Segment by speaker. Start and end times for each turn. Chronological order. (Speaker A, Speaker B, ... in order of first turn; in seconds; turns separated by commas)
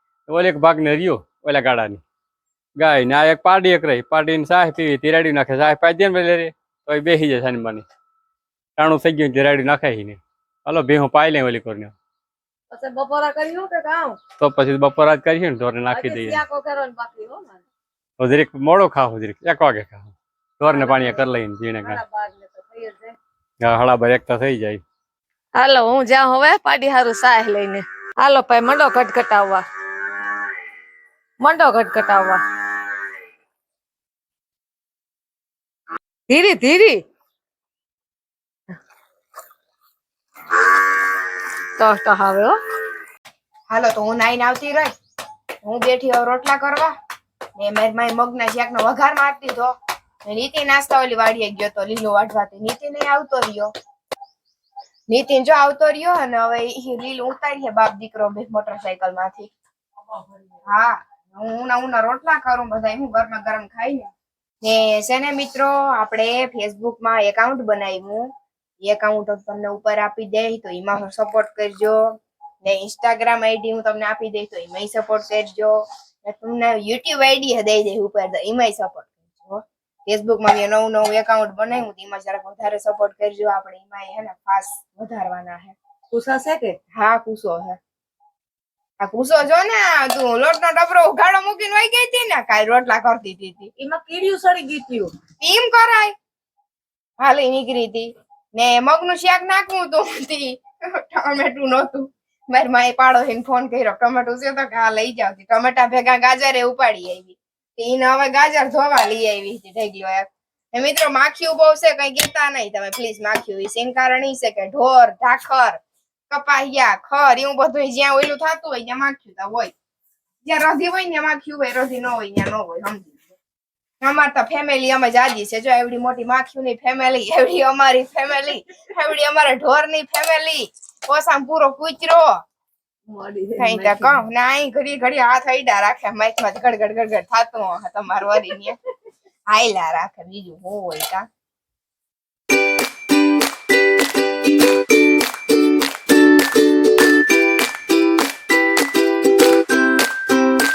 Speaker A: 0.3-2.0, Speaker A: 2.8-7.8, Speaker A: 8.8-11.9, Speaker B: 12.7-14.2, Speaker A: 14.4-16.4, Speaker B: 15.9-17.6, Speaker A: 18.2-22.0, Speaker B: 20.7-21.3, Speaker B: 21.8-23.1, Speaker A: 23.6-24.8, Speaker B: 25.6-29.6, Speaker B: 31.4-32.4, Speaker B: 36.3-37.0, Speaker B: 41.8-42.6, Speaker C: 43.7-44.9, Speaker C: 45.6-46.9, Speaker C: 47.5-49.7, Speaker C: 50.2-53.7, Speaker C: 55.1-59.5, Speaker C: 60.6-64.1, Speaker C: 64.6-68.3, Speaker C: 68.8-85.7, Speaker B: 86.1-86.8, Speaker C: 86.9-87.8, Speaker C: 89.0-93.7, Speaker B: 93.8-95.1, Speaker C: 95.4-96.1, Speaker C: 97.2-119.7, Speaker C: 120.4-123.3, Speaker C: 124.0-132.3, Speaker B: 133.1-134.2, Speaker C: 133.6-138.8, Speaker C: 139.5-141.2